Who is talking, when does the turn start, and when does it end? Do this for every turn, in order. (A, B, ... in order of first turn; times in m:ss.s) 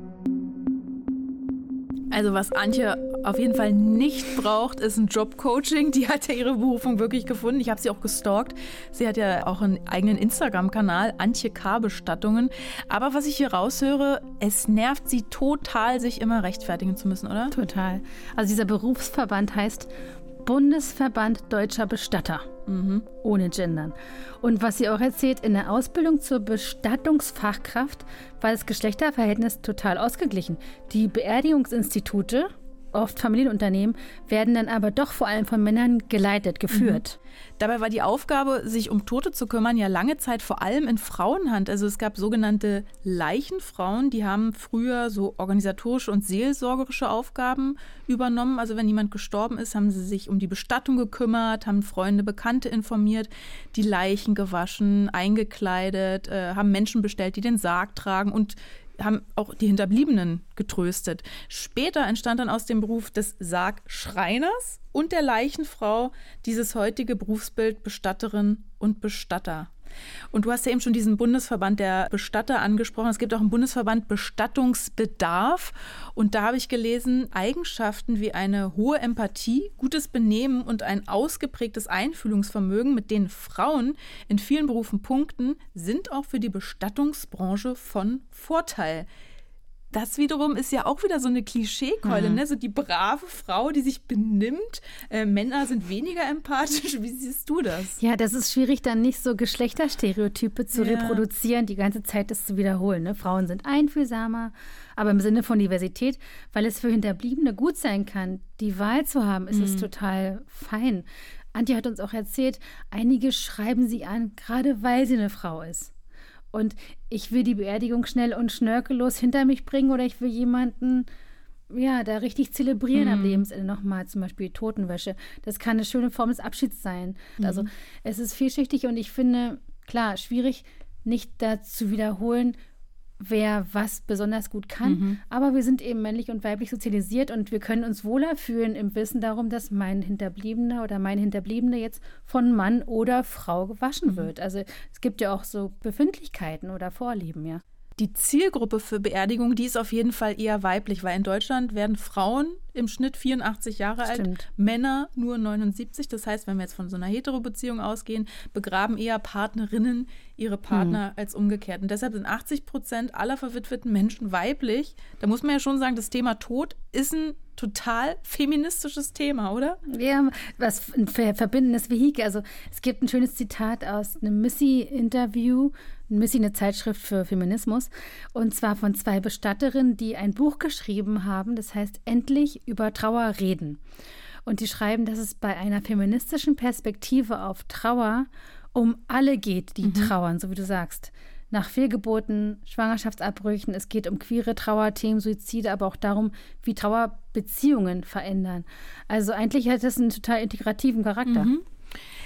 0:02.1-0:17.6 A
0:17.5-0:22.5 B
0:22.7-0:23.1 A
0:23.2-0:37.2 B
0:36.7-0:37.0 A
0:37.6-1:09.7 A
1:10.3-1:29.1 A
1:29.9-1:38.0 A
1:32.0-1:32.4 B
1:38.0-1:55.9 B
1:40.7-1:41.3 A
1:49.5-1:49.9 A
1:56.5-2:01.1 B
2:01.7-2:12.6 B
2:02.9-2:03.4 A
2:07.4-2:07.7 A
2:13.2-2:27.6 B
2:14.8-2:15.2 A
2:24.0-2:24.3 A
2:28.0-2:49.8 A
2:34.0-2:34.4 B
2:40.7-2:41.0 B
2:49.9-3:03.8 B
3:04.4-3:21.5 B
3:09.8-3:10.1 A
3:21.3-3:21.6 A